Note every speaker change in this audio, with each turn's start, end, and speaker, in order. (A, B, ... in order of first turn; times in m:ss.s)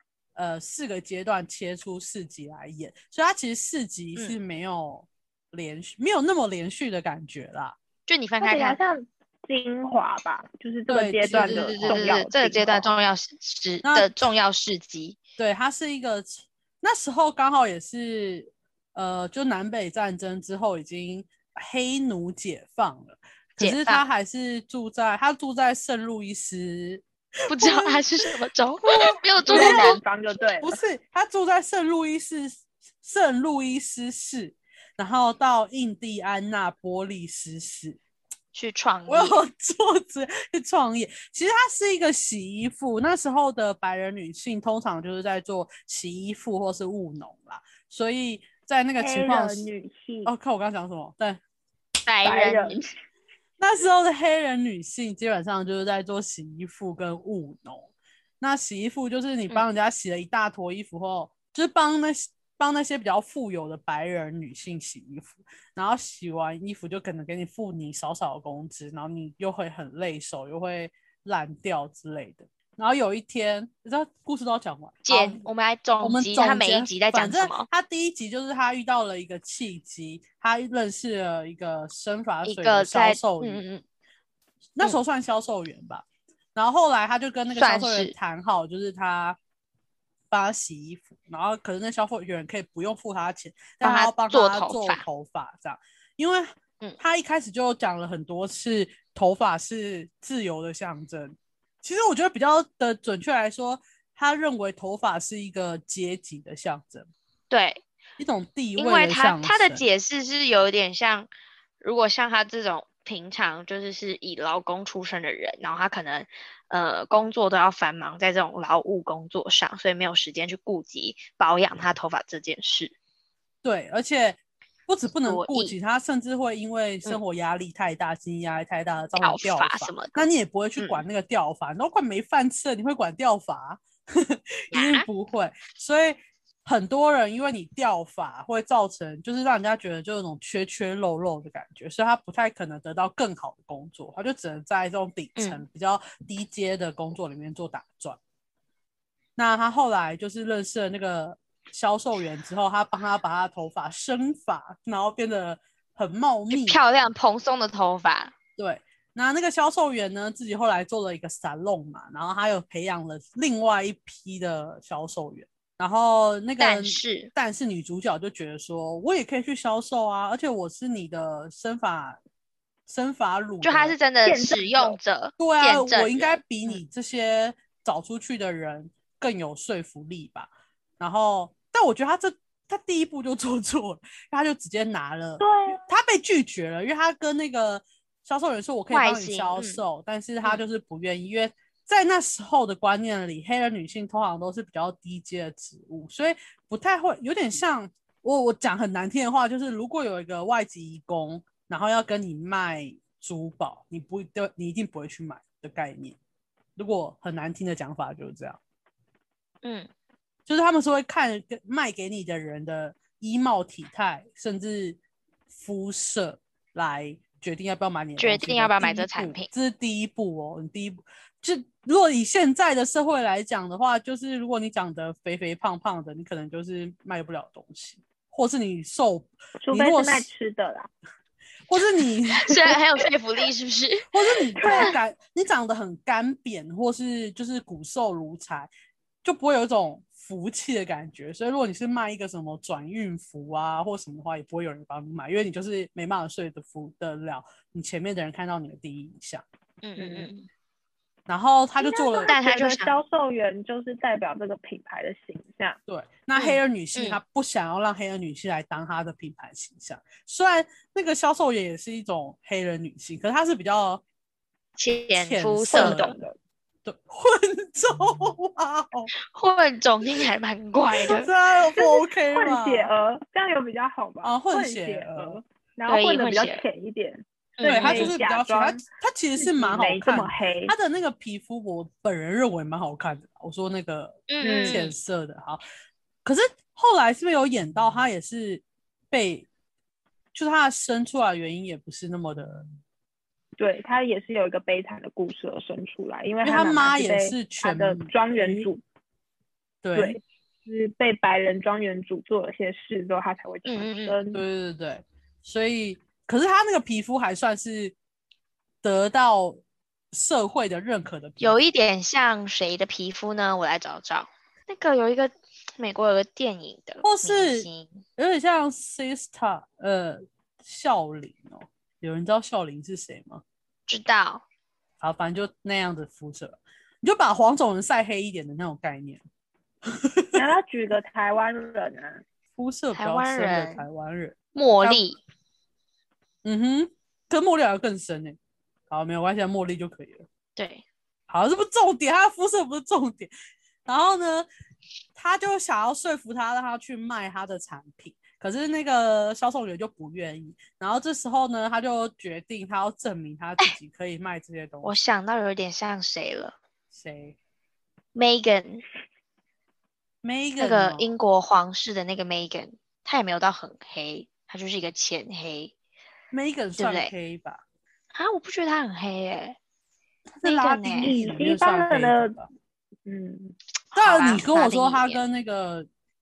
0:00.4-0:07.8 A
0:08.1-0:08.8 B
0:08.4-0:12.9 C
0:10.9-0:12.1 A
0:11.3-0:15.2 B
0:13.8-0:14.1 A
0:15.4-0:28.0 A
0:23.6-0:24.0 B
0:27.5-0:30.0 B
0:28.8-0:30.0 A
0:29.4-0:30.8 C
0:30.6-0:38.0 A
0:38.5-0:39.4 B
0:39.1-0:49.7 A
0:49.0-0:50.3 C
0:50.2-0:51.4 A
0:52.0-0:52.8 B
0:52.2-0:52.9 C
0:53.6-1:15.4 A
1:15.0-1:17.7 B
1:16.0-1:23.6 A
1:22.4-1:23.8 B
1:24.8-1:29.4 A
1:27.5-1:28.1 B
1:30.3-1:47.1 A
1:33.8-1:35.0 B
1:47.5-1:47.8 B
1:48.2-1:49.8 A
1:48.8-1:51.3 B
1:51.8-2:02.9 B
2:03.6-2:28.2 A
2:05.2-2:05.7 B
2:09.2-2:11.0 B
2:14.7-2:15.1 B
2:25.4-2:25.6 B
2:29.4-2:36.8 A
2:36.5-2:38.3 B
2:38.6-2:52.2 A
2:46.6-2:47.3 B
2:52.9-2:54.0 A
2:53.6-2:56.8 B
2:54.2-2:55.0 C
2:55.4-3:26.2 A
3:05.4-3:05.8 C
3:08.9-3:09.8 B
3:26.8-3:28.6 A
3:29.6-3:29.9 B
3:30.5-3:35.0 A
3:35.5-3:50.3 A
3:38.2-3:39.5 B
3:49.6-3:50.9 C
3:51.7-3:52.5 A
3:52.4-3:54.1 B
3:54.1-3:58.7 A
3:54.6-3:55.0 C
3:54.7-3:54.9 B
3:59.2-4:09.4 A
4:09.8-4:10.5 B
4:10.0-4:10.3 C
4:11.3-4:12.3 A
4:11.8-4:15.8 C
4:12.3-4:12.9 B
4:15.9-4:24.0 A
4:16.4-4:17.2 B
4:24.8-4:26.1 B
4:25.1-4:26.2 A
4:25.7-4:26.4 C
4:26.8-4:29.1 A
4:29.3-4:31.3 B
4:31.0-4:32.9 A
4:31.8-4:38.8 C
4:34.2-4:35.4 A
4:35.9-4:36.6 B
4:37.6-4:38.1 B
4:37.6-4:45.6 A
4:39.4-4:40.7 C
4:44.3-4:44.9 B
4:44.4-4:44.9 C
4:46.2-4:49.5 A
4:50.3-4:52.7 A
4:53.6-4:58.8 C
4:56.4-4:58.7 A
4:59.8-5:00.2 A
4:59.9-5:04.4 C
5:03.6-5:04.1 B
5:04.3-5:07.9 A
5:08.8-5:09.6 A
5:10.1-5:11.6 A
5:11.4-5:18.0 B
5:17.0-5:23.4 A
5:23.9-5:24.4 B
5:25.0-5:29.2 A
5:29.8-5:30.4 A
5:30.3-5:32.2 C
5:32.6-5:35.0 A
5:32.9-5:33.8 B
5:34.5-5:35.2 B
5:36.4-5:38.4 A
5:38.9-5:40.2 A
5:40.6-5:40.8 B
5:41.3-5:43.3 A
5:43.8-5:44.5 A
5:45.1-5:54.9 A
5:54.8-5:56.6 B
5:56.9-5:57.4 A
5:58.1-5:58.8 B
6:00.2-6:01.1 A
6:00.6-6:05.7 B
6:06.3-6:07.6 A
6:06.8-6:07.1 B
6:08.1-6:09.6 B
6:10.4-6:12.5 A
6:10.4-6:11.1 B
6:11.0-6:12.4 C
6:13.0-6:13.5 C
6:13.9-6:15.2 B
6:13.9-6:15.9 A